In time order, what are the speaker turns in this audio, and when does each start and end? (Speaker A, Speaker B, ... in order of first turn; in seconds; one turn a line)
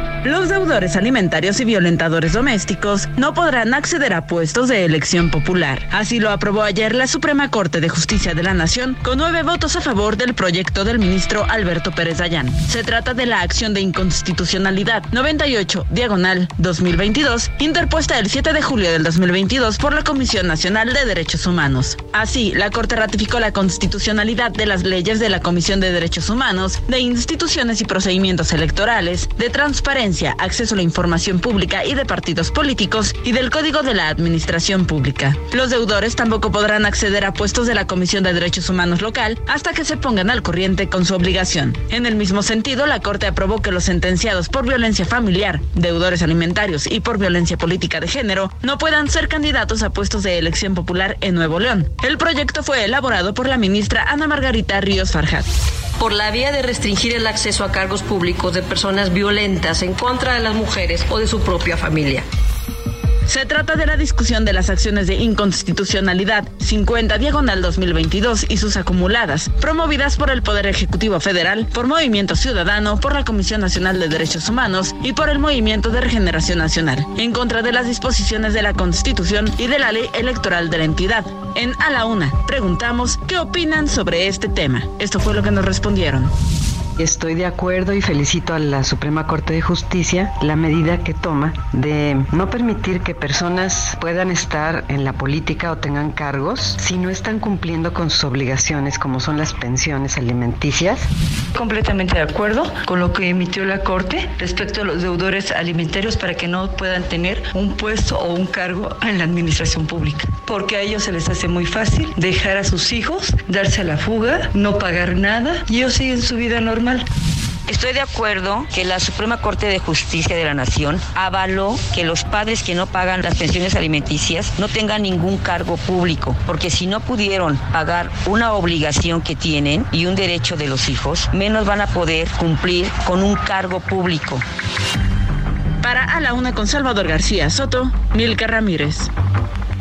Speaker A: 0.2-55.5
Speaker B: 56.0-62.2
Speaker A: 63.3-86.3
Speaker C: 87.0-101.0
Speaker D: 101.5-117.1
Speaker E: 117.7-134.4
Speaker A: 135.8-139.1